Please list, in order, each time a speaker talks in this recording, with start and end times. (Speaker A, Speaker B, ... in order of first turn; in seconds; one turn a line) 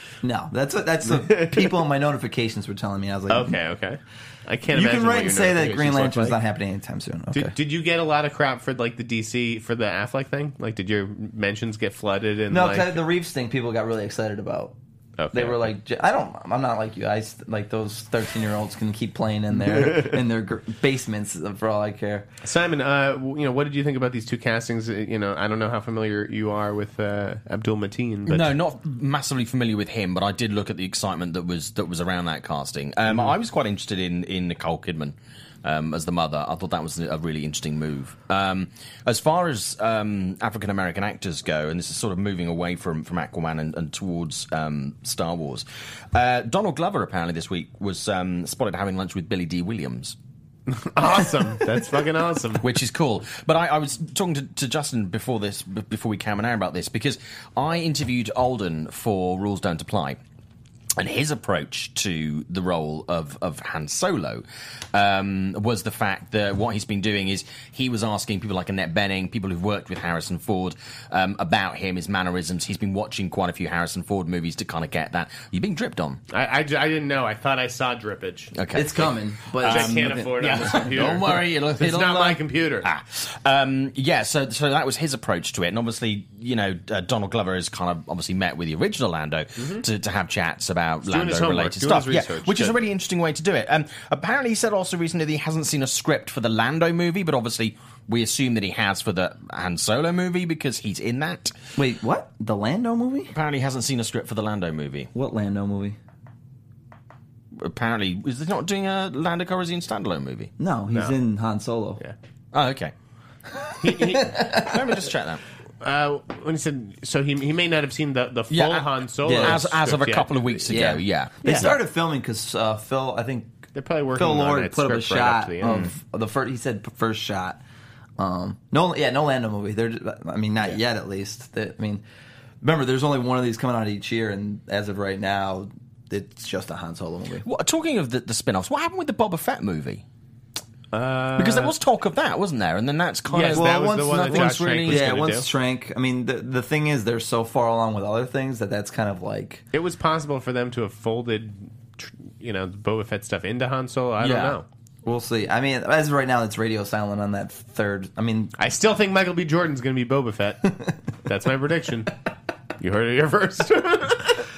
Speaker A: 0.2-3.6
Speaker B: 1.0-1.8
Speaker B: 3.3-6.4
Speaker A: 4.7-7.5
Speaker B: 7.3-13.0
Speaker A: 12.5-14.8
Speaker B: 15.2-15.7
Speaker A: 15.3-22.3
Speaker B: 19.8-20.1
Speaker B: 22.4-28.5
Speaker C: 28.3-50.2
Speaker B: 50.7-52.6
Speaker C: 52.6-60.2
Speaker C: 61.0-76.2
Speaker B: 76.3-78.5
Speaker C: 78.5-101.5
Speaker A: 78.7-81.2
Speaker B: 79.6-82.9
Speaker B: 89.6-89.8
Speaker B: 91.1-92.8
Speaker A: 101.8-103.3
Speaker C: 103.3-105.1
Speaker A: 105.1-106.0
Speaker C: 107.6-110.5
Speaker A: 110.6-112.0
Speaker B: 110.9-111.2
Speaker C: 112.5-112.9
Speaker B: 113.8-114.3
Speaker A: 114.0-114.9
Speaker C: 114.2-115.4
Speaker B: 115.8-120.7
Speaker C: 118.5-121.7
Speaker A: 119.2-119.6
Speaker A: 120.7-123.6
Speaker B: 121.4-121.7
Speaker B: 123.8-125.9
Speaker A: 124.2-127.6
Speaker C: 125.6-125.9
Speaker A: 128.2-132.0
Speaker A: 132.6-137.5
Speaker C: 137.4-140.0
Speaker B: 140.9-141.7
Speaker C: 141.4-145.1
Speaker B: 143.3-145.5
Speaker A: 143.5-149.6
Speaker B: 149.7-154.7
Speaker C: 154.2-154.6
Speaker A: 155.1-158.5
Speaker B: 158.6-162.1
Speaker B: 162.8-164.5